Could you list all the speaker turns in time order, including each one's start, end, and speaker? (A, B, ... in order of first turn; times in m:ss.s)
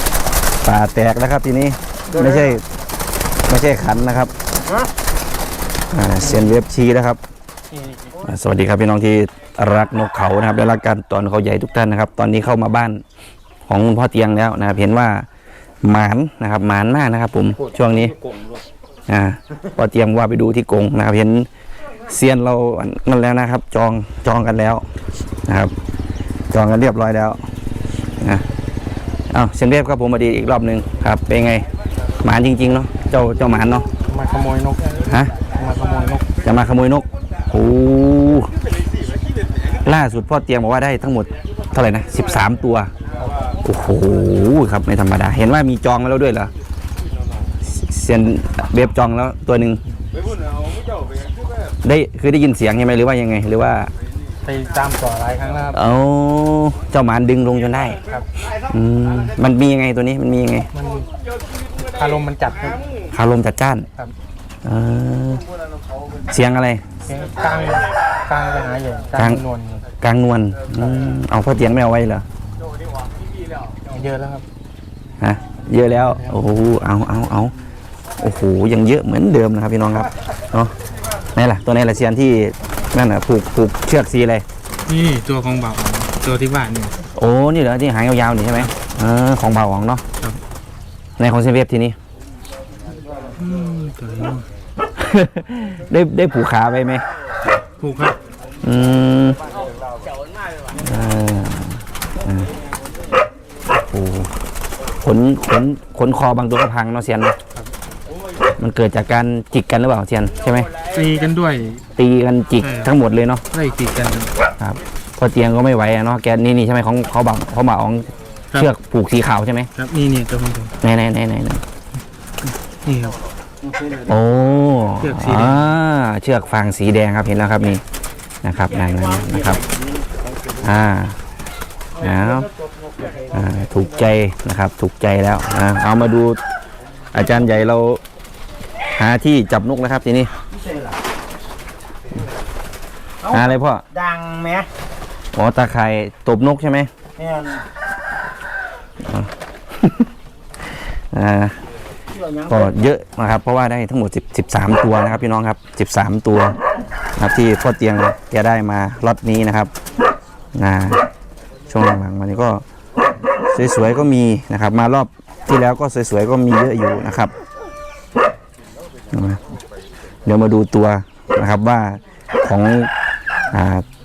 0:00.6-0:02.6 A
0:02.1-0:02.5 B
0:03.5-0:04.3 A
0:05.9-0:07.2 A
0:06.2-0:06.6 C
0:07.7-0:08.2 C
0:08.2-0:13.0 A
0:13.7-0:15.3 A
0:15.8-0:18.2 A
0:19.1-0:21.5 A
0:22.0-0:24.8 A
0:25.5-0:25.7 A
0:26.5-0:27.4 A
0:29.3-0:31.7 A
0:32.2-0:33.8 A
0:34.1-0:36.3 C
0:35.1-0:35.3 A
0:36.4-0:38.5 A
0:39.8-0:42.9 A
0:43.6-0:46.5 A
0:47.6-0:49.8 A
0:51.8-0:53.9 A
0:54.4-0:55.9 C
0:55.7-0:58.0 A
0:58.7-1:00.7 A
1:00.7-1:01.1 C
1:01.9-1:02.8 C
1:03.1-1:03.9 A
1:04.6-1:05.4 A
1:06.3-1:06.8 A
1:07.0-1:09.8 C
1:09.2-1:09.4 A
1:10.0-1:12.2 A
1:13.9-1:14.4 C
1:15.2-1:17.5 A
1:16.0-1:16.4 C
1:18.2-1:20.7 A
1:21.3-1:24.4 A
1:24.9-1:27.0 C
1:27.2-1:30.0 A
1:31.2-1:32.0 A
1:33.4-1:34.4 C
1:35.0-1:37.0 A
1:37.8-1:38.2 C
1:38.6-1:39.4 A
1:40.8-1:42.5 A
1:43.7-1:44.3 A
1:45.0-1:47.4 A
1:48.6-1:50.7 A
1:50.9-1:51.8 C
1:52.0-1:53.4 A
1:52.6-1:52.9 C
1:53.5-1:54.3 C
1:54.6-1:59.7 A
1:59.7-2:00.7 C
2:00.8-2:01.6 A
2:02.8-2:03.2 C
2:03.6-2:04.1 B
2:04.1-2:07.8 A
2:05.0-2:05.6 C
2:08.4-2:09.6 A
2:09.0-2:10.6 B
2:10.6-2:11.2 A
2:12.0-2:12.5 A
2:12.4-2:13.3 B
2:13.3-2:16.4 A
2:17.1-2:18.0 A
2:18.9-2:20.3 A
2:23.3-2:23.8 A
2:23.9-2:24.7 B
2:25.3-2:26.9 A
2:27.2-2:27.6 B
2:29.0-2:30.1 A
2:31.1-2:31.6 A
2:32.1-2:32.6 B
2:32.5-2:36.6 A
2:37.2-2:39.7 A
2:40.5-2:41.0 A
2:41.7-2:42.6 A
2:43.5-2:47.3 A
2:49.1-2:49.4 A
2:50.2-2:52.9 A
2:53.5-2:53.8 A